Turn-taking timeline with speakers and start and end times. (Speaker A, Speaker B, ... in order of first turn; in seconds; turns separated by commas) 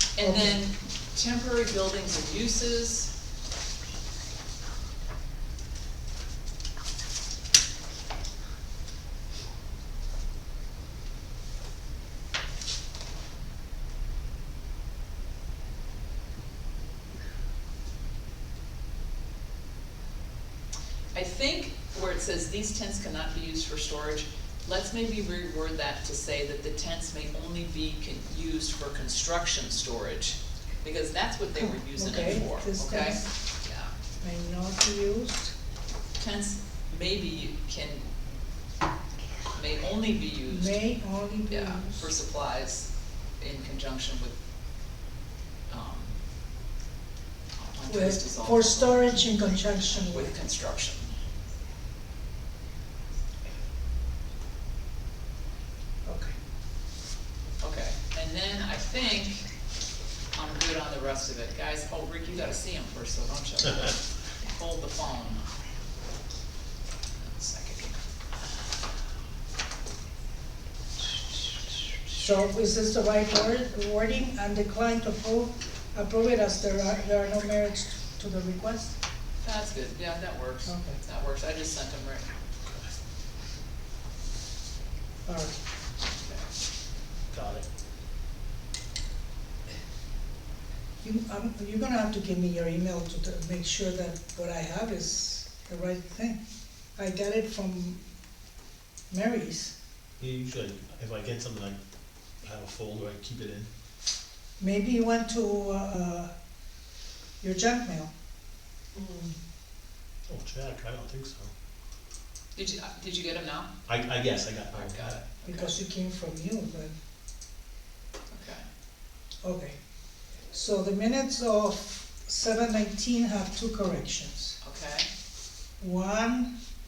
Speaker A: 0.1-3.1, Speaker B: 0.2-0.6, Speaker A: 21.1-33.9, Speaker B: 31.6-33.3, Speaker B: 34.2-35.5, Speaker A: 36.2-38.0, Speaker A: 39.5-40.8, Speaker B: 40.5-42.1, Speaker A: 41.5-44.4, Speaker A: 45.7-46.2, Speaker A: 47.6-51.1, Speaker B: 47.9-50.3, Speaker B: 56.0-56.3, Speaker A: 57.6-59.5, Speaker A: 60.3-65.4, Speaker A: 67.2-68.0, Speaker B: 72.1-79.0, Speaker A: 79.4-82.2, Speaker B: 80.7-81.0, Speaker B: 85.2-85.6, Speaker A: 86.2-86.5, Speaker C: 87.3-87.6, Speaker B: 91.0-96.4, Speaker B: 97.0-98.0, Speaker B: 99.1-99.7, Speaker C: 100.2-101.8, Speaker C: 102.4-103.7, Speaker B: 104.6-106.3, Speaker B: 107.4-108.1, Speaker C: 110.3-111.5, Speaker A: 112.5-113.7, Speaker C: 113.9-115.2, Speaker A: 114.7-115.7, Speaker B: 115.5-116.9, Speaker A: 118.3-118.6, Speaker B: 119.4-119.8, Speaker B: 120.5-124.6, Speaker A: 124.6-125.0, Speaker B: 125.8-126.5